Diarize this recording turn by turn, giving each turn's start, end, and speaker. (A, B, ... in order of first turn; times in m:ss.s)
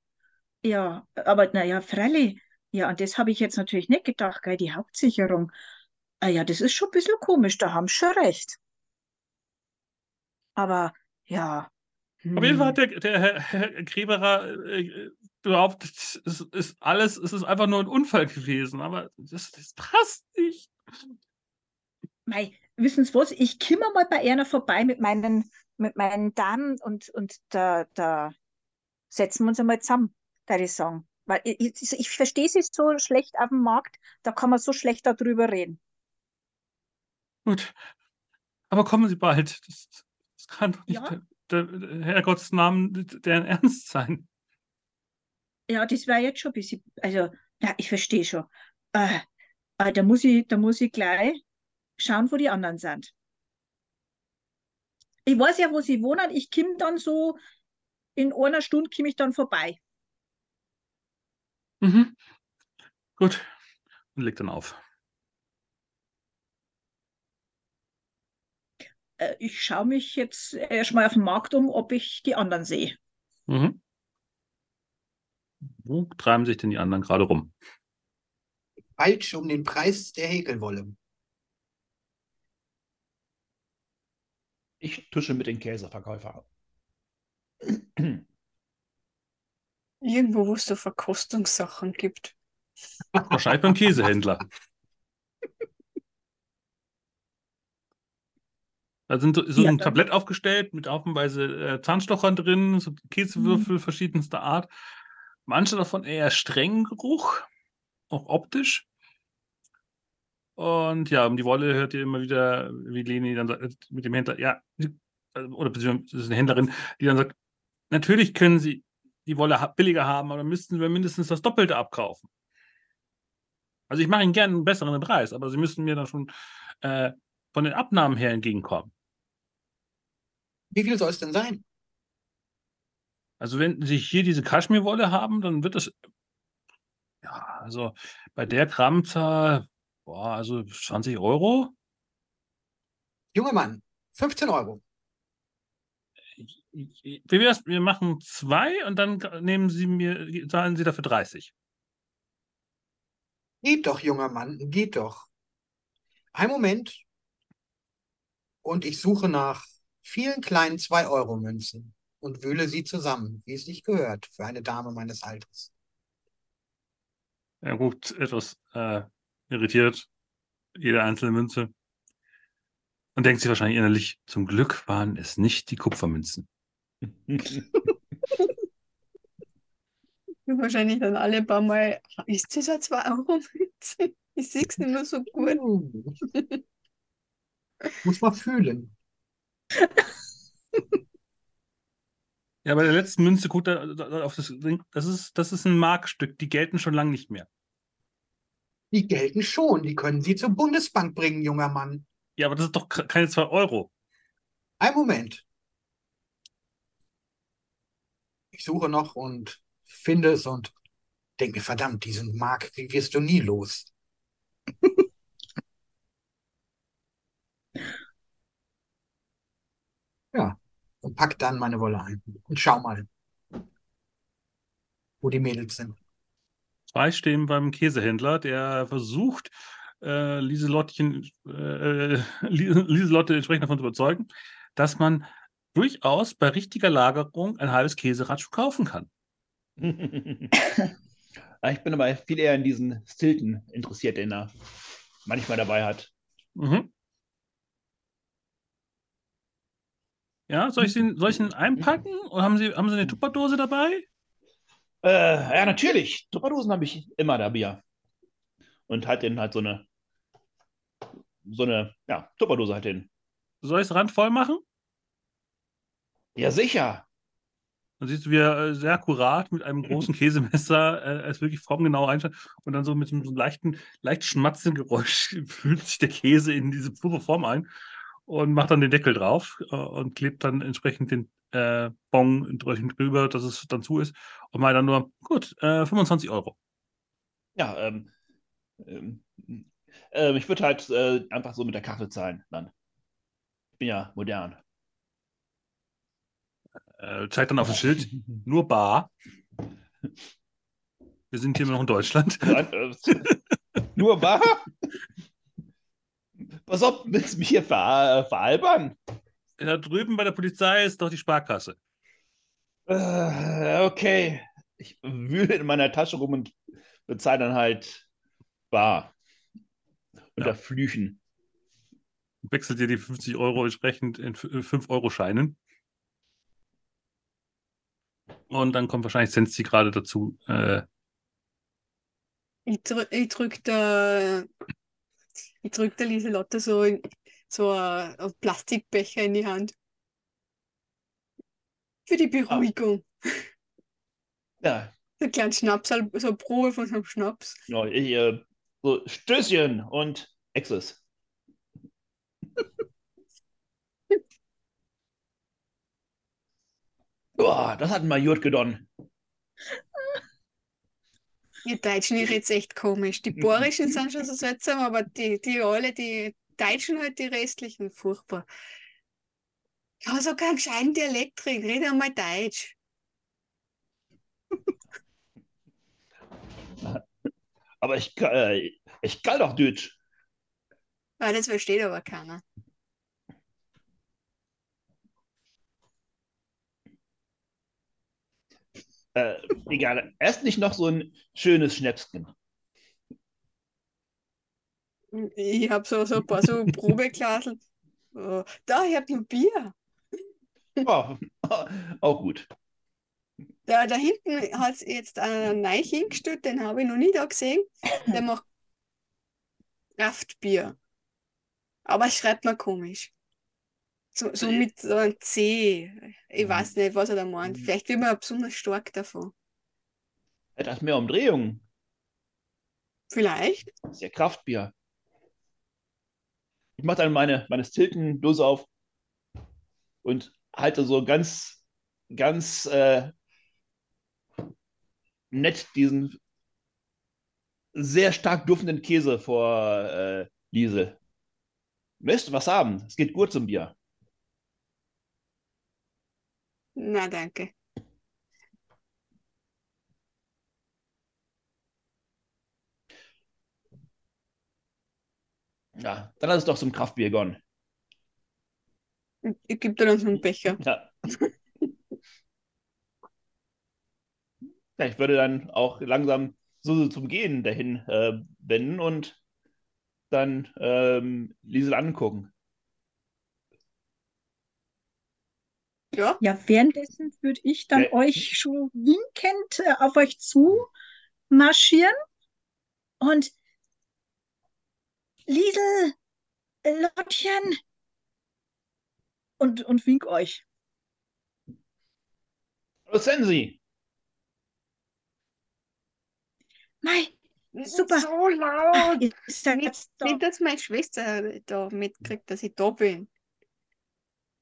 0:00.6-0:05.5 A
0:06.2-0:08.6 A
0:10.6-0:11.7 A
0:12.2-0:12.8 A
0:12.4-0:20.7 B
0:22.3-0:28.3 A
0:29.1-0:35.8 A
0:37.5-0:37.8 B
0:38.7-0:44.2 B
0:40.9-0:41.2 A
0:45.7-0:49.2 A
0:49.8-0:51.4 A
0:52.0-0:53.1 A
0:55.3-0:57.4 A
0:58.2-0:59.8 A
1:01.8-1:02.2 B
1:03.2-1:03.5 B
1:04.2-1:04.8 B
1:09.2-1:13.0 A
1:13.5-1:13.8 B
1:15.8-1:17.5 B
1:19.0-1:21.0 C
1:24.8-1:26.4 D
1:27.7-1:28.2 D
1:30.0-1:32.3 E
1:33.2-1:34.5 B
1:39.1-1:44.7 B
1:39.6-1:40.0 A
1:43.4-1:43.7 A
1:45.5-1:47.5 B
1:48.1-1:48.8 B
1:50.6-1:57.3 B
1:57.9-2:02.3 B
2:03.9-2:06.3 B
2:06.8-2:08.9 B
2:10.7-2:11.6 C
2:13.4-2:15.9 B
2:17.2-2:21.7 B
2:23.3-2:24.8 C
2:26.4-2:31.5 B
2:33.6-2:35.3 C
2:36.3-2:37.0 C
2:38.6-2:45.7 C
2:47.6-2:50.1 B
2:50.8-2:51.7 B
2:53.2-2:56.5 B
2:57.2-2:57.6 D
3:00.5-3:05.6 E
3:05.4-3:06.2 C
3:08.0-3:08.9 C
3:12.6-3:17.5 B
3:18.9-3:22.0 C
3:22.4-3:23.9 B
3:24.8-3:25.4 C
3:28.5-3:30.7 C
3:31.4-3:33.9 C
3:40.3-3:43.1 C
3:45.2-3:46.0 C
3:46.9-3:59.1 B
3:59.8-4:00.6 D
4:01.6-4:04.5 D
4:05.2-4:06.1 D
4:06.6-4:06.9 B
4:10.5-4:14.0 B
4:15.0-4:17.8 D
4:18.9-4:19.8 D
4:21.4-4:23.1 D
4:23.6-4:24.6 B
4:26.4-4:27.0 D
4:28.0-4:37.7 B
4:38.3-4:46.6 B
4:47.6-4:48.1 D
4:48.8-4:52.7 D
4:53.8-4:54.6 D
4:57.0-4:59.1 B
5:01.3-5:03.4 B
5:02.4-5:03.3 D
5:03.9-5:04.7 D
5:06.6-5:09.0 D
5:09.6-5:11.8 B
5:12.9-5:16.6 D
5:17.1-5:18.1 D
5:18.7-5:19.1 D
5:20.4-5:21.2 D
5:22.4-5:25.6 B
5:28.5-5:30.8 B
5:32.7-5:34.5 E
5:35.6-5:39.7 E
5:42.1-5:43.5 E
5:44.6-5:44.9 D
5:45.2-5:47.6 E
5:47.7-5:51.0 D
5:57.4-5:58.9 D
6:01.6-6:08.5 E
6:10.0-6:12.8 E
6:17.8-6:20.0 D
6:21.2-6:22.4 E
6:29.2-6:32.3 D
6:35.1-6:37.6 E
6:38.1-6:39.7 E
6:40.8-6:42.5 D
6:43.7-6:48.4 E
6:50.0-6:50.8 E
6:51.9-6:53.1 E
6:54.2-6:59.3 E
7:00.6-7:01.6 D
7:03.1-7:03.7 E
7:03.9-7:04.7 D
7:06.8-7:08.7 D
7:10.0-7:11.6 D
7:12.1-7:13.1 D
7:15.3-7:16.2 D
7:17.7-7:21.0 D
7:22.0-7:23.8 D
7:26.8-7:27.5 E
7:35.8-7:37.4 D
7:39.2-7:40.6 E
7:40.6-7:40.9 D
7:44.8-7:49.2 D
7:50.1-7:52.3 D
7:55.9-7:56.2 E
7:56.2-8:00.7 A
8:01.3-8:02.0 A
8:03.0-8:03.3 A
8:05.3-8:06.0 A
8:06.6-8:07.6 A
8:09.4-8:10.4 A
8:12.9-8:13.6 D
8:16.8-8:17.1 A
8:17.6-8:23.1 E
8:17.7-8:18.1 A
8:18.7-8:20.2 A